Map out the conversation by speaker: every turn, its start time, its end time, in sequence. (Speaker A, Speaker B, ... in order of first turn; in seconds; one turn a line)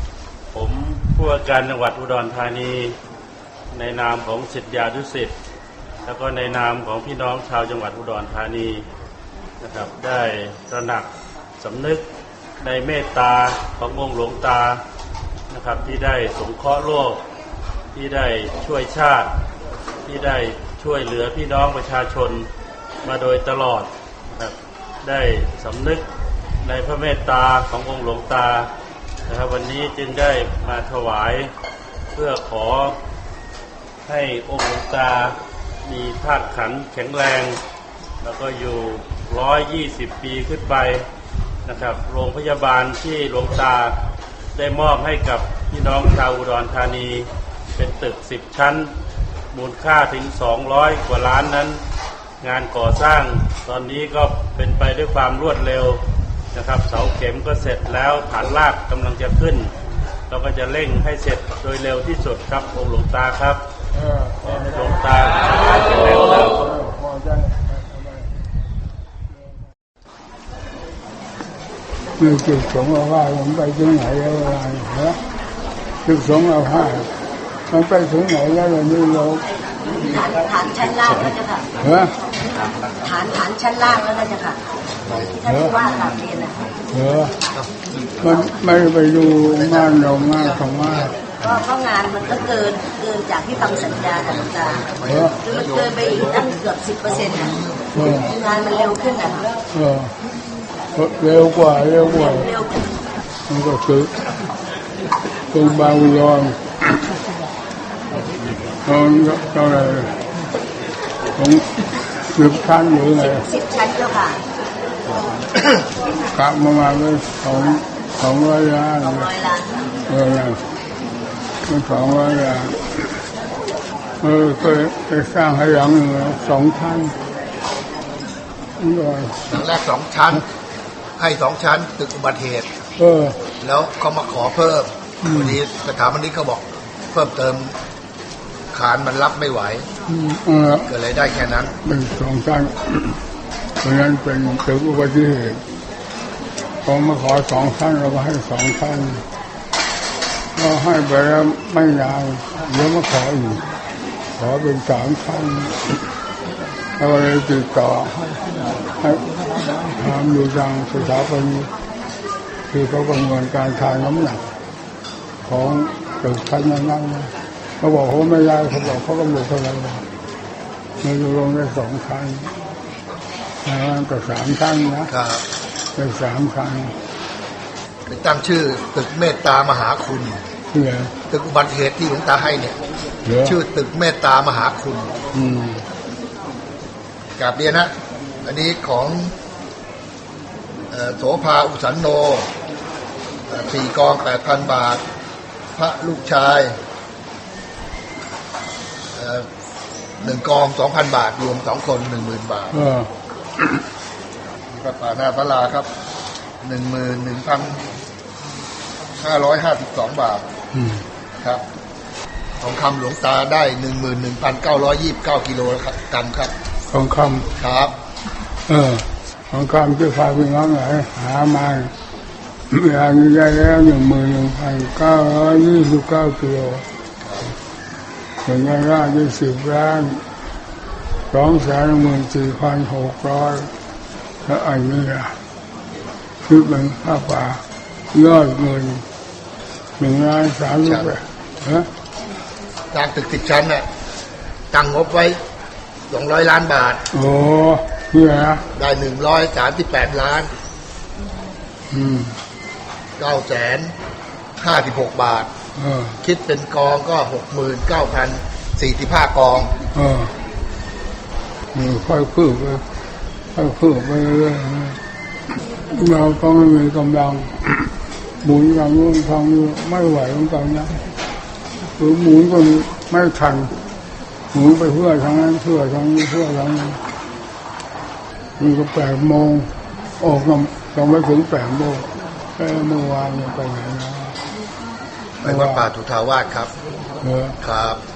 Speaker A: 0.5-2.9
Speaker A: 3.7-5.3
Speaker A: 6.0-8.8
Speaker A: 9.6-11.1
Speaker A: 11.6-12.0
Speaker A: 12.6-14.8
Speaker A: 15.5-17.2
Speaker A: 17.9-19.3
Speaker A: 20.1-22.5
Speaker A: 23.0-26.0
Speaker A: 26.6-28.7
Speaker A: 29.3-31.5
Speaker A: 32.1-32.9
Speaker A: 34.0-37.6
Speaker A: 38.2-41.0
Speaker A: 41.6-43.9
Speaker A: 44.5-48.9
Speaker A: 49.5-51.8
Speaker A: 52.4-56.0
Speaker A: 56.5-59.7
Speaker A: 60.3-63.6
Speaker B: 63.9-64.8
Speaker A: 64.4-66.6
Speaker B: 66.4-68.3
Speaker B: 72.2-75.2
Speaker B: 76.0-77.1
Speaker B: 77.7-79.4
Speaker C: 80.0-81.6
Speaker B: 81.8-82.1
Speaker C: 83.0-86.6
Speaker B: 85.4-85.7
Speaker B: 86.9-87.3
Speaker B: 88.2-91.1
Speaker C: 91.3-94.9
Speaker D: 94.8-96.0
Speaker B: 95.0-95.4
Speaker C: 95.4-97.5
Speaker D: 97.5-97.9
Speaker B: 97.9-98.3
Speaker C: 98.2-99.5
Speaker B: 99.7-100.1
Speaker B: 100.9-102.5
Speaker C: 102.3-102.8
Speaker B: 103.5-104.1
Speaker B: 105.5-107.0
Speaker B: 108.8-110.1
Speaker B: 111.3-111.7
Speaker B: 112.2-113.5
Speaker C: 113.2-114.4
Speaker B: 116.3-119.3
Speaker C: 119.2-119.7
Speaker B: 120.1-120.6
Speaker B: 121.6-123.2
Speaker B: 124.2-127.1
Speaker B: 128.8-129.6
Speaker D: 129.5-130.4
Speaker D: 131.2-132.7
Speaker B: 133.0-133.4
Speaker D: 133.6-137.8
Speaker B: 135.2-135.6
Speaker D: 138.7-139.9
Speaker B: 140.1-140.9
Speaker D: 140.9-141.8
Speaker B: 141.8-143.2
Speaker B: 143.8-145.6
Speaker B: 146.8-149.2
Speaker B: 150.5-153.7
Speaker B: 154.4-156.0
Speaker B: 157.0-158.2
Speaker B: 159.0-159.3
Speaker B: 159.8-161.7
Speaker B: 162.7-164.4
Speaker B: 165.4-170.0
Speaker B: 171.0-172.5
Speaker B: 173.6-175.1
Speaker D: 175.1-175.4
Speaker B: 175.9-176.9
Speaker D: 178.1-180.4
Speaker B: 180.7-181.1
Speaker D: 181.3-182.8
Speaker B: 183.2-183.6
Speaker D: 183.4-185.2
Speaker B: 185.3-185.8
Speaker D: 187.4-187.9
Speaker D: 188.4-189.3
Speaker D: 190.9-192.5
Speaker D: 193.5-195.0
Speaker D: 195.8-196.8
Speaker D: 199.1-199.4
Speaker D: 200.2-202.8
Speaker B: 202.7-203.1
Speaker D: 204.7-205.9
Speaker D: 206.6-207.9
Speaker D: 209.1-210.4
Speaker B: 210.7-211.0
Speaker D: 212.6-216.5
Speaker B: 216.9-217.5
Speaker D: 217.6-217.9
Speaker B: 218.7-221.9
Speaker B: 222.7-226.8
Speaker D: 227.2-227.5
Speaker B: 228.4-230.2
Speaker B: 231.3-233.7
Speaker B: 234.4-235.3
Speaker B: 236.4-237.6
Speaker B: 238.1-239.0
Speaker B: 240.0-241.9
Speaker D: 240.8-241.1
Speaker D: 242.9-243.8
Speaker D: 244.7-245.4
Speaker D: 246.1-247.0
Speaker B: 247.1-248.6
Speaker D: 248.8-250.5
Speaker B: 251.9-252.3
Speaker D: 253.2-253.9
Speaker D: 254.6-255.5
Speaker B: 255.8-256.2
Speaker D: 256.2-259.7
Speaker B: 259.9-260.3
Speaker B: 261.7-262.8
Speaker B: 263.5-265.0
Speaker B: 265.9-267.9
Speaker B: 268.4-270.9
Speaker B: 272.0-273.7
Speaker B: 274.5-277.0
Speaker B: 278.6-284.4
Speaker D: 285.4-286.7
Speaker B: 285.4-285.9
Speaker B: 287.2-287.6
Speaker D: 287.6-288.0